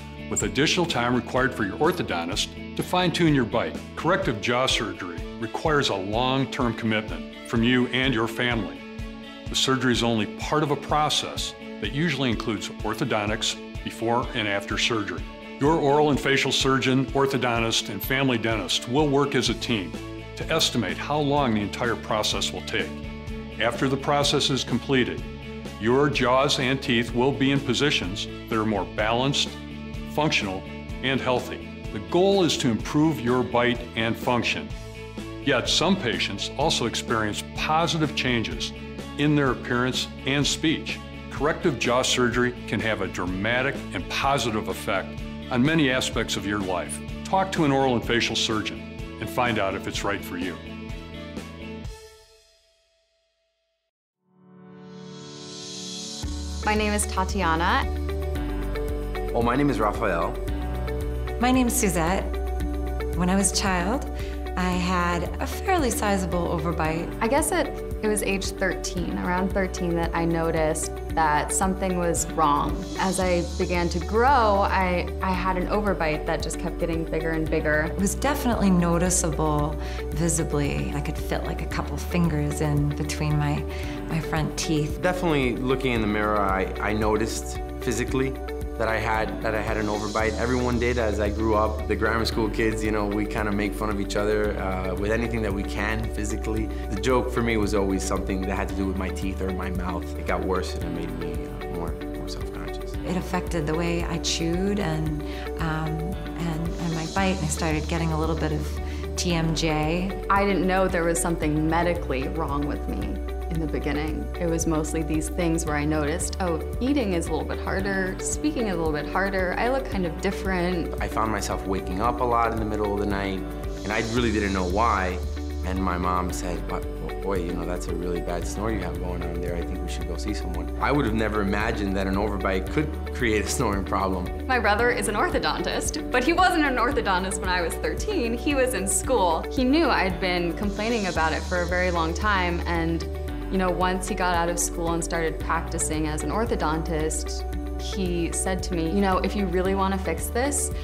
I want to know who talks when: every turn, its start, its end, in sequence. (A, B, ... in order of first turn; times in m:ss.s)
0:00.3-0:08.8 A
0:09.5-0:23.0 A
0:23.6-0:34.7 A
0:35.4-0:50.6 A
0:56.6-0:57.8 B
0:59.3-1:00.4 C
1:01.4-1:02.3 D
1:03.1-1:07.1 D
1:07.4-1:17.8 B
1:18.0-1:25.0 D
1:25.0-1:43.0 C
1:43.0-1:50.2 D
1:50.5-2:00.9 B
2:01.0-2:14.3 C
2:14.5-2:23.0 B
2:23.5-2:30.7 B